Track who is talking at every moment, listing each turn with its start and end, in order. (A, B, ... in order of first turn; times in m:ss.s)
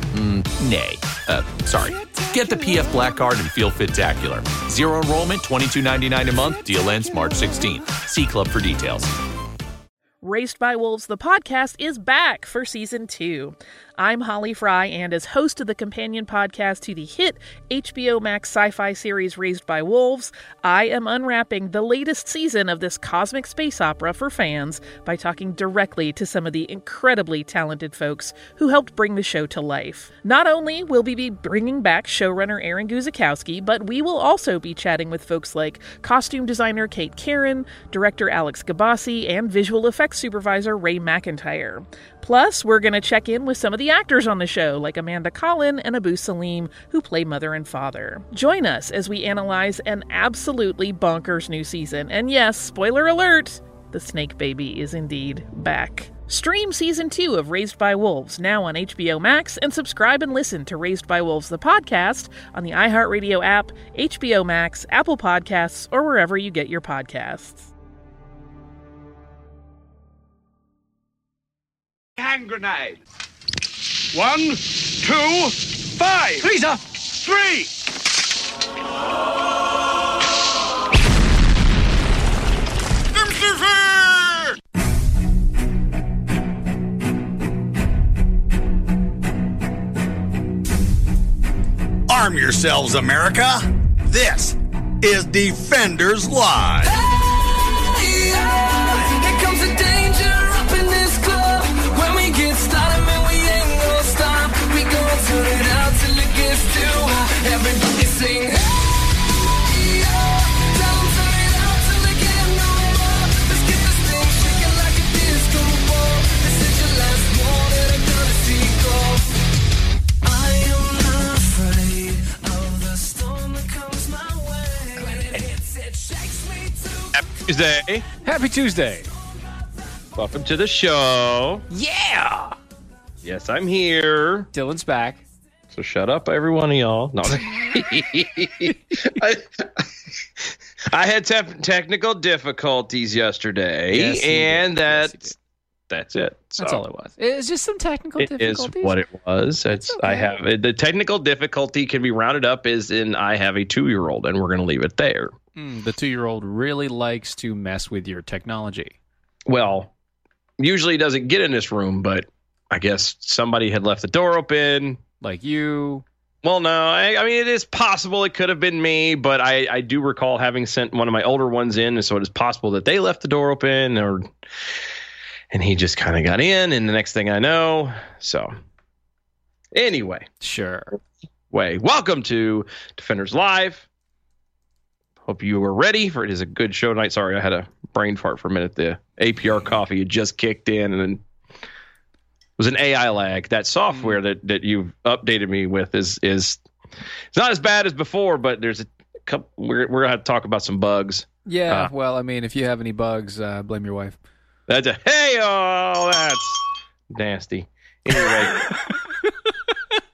0:00.1-0:09.1 A
0:10.2-1:07.7 B
1:12.2-1:12.8 C
1:14.1-1:17.7 C
1:23.1-1:24.5 D
1:32.1-1:36.9 D
1:36.8-1:59.4 E
2:00.2-2:07.2 E
2:07.1-2:08.0 F
2:08.2-2:09.1 G
2:10.2-2:11.6 F
2:11.7-2:12.6 G
2:13.2-2:14.5 F
2:14.5-2:15.2 G
2:15.7-2:19.8 F
2:17.4-2:17.8 G
2:18.6-2:19.1 G
2:20.4-2:25.3 F
2:23.9-2:25.4 G
2:25.9-2:26.8 F
2:26.6-2:29.0 G
2:28.2-2:35.3 F
2:29.8-2:30.3 G
2:35.5-2:39.0 G
2:39.5-2:39.9 F
2:40.6-2:45.0 F
2:45.2-2:46.0 G
2:46.4-2:54.3 F
2:55.5-2:58.5 F
2:59.7-3:00.3 F
3:00.4-3:01.0 G
3:01.5-3:03.8 F
3:05.2-3:11.2 F
3:12.6-3:16.6 F
3:13.9-3:14.2 G
3:17.3-3:21.9 F
3:21.4-3:24.2 G
3:24.7-3:28.6 F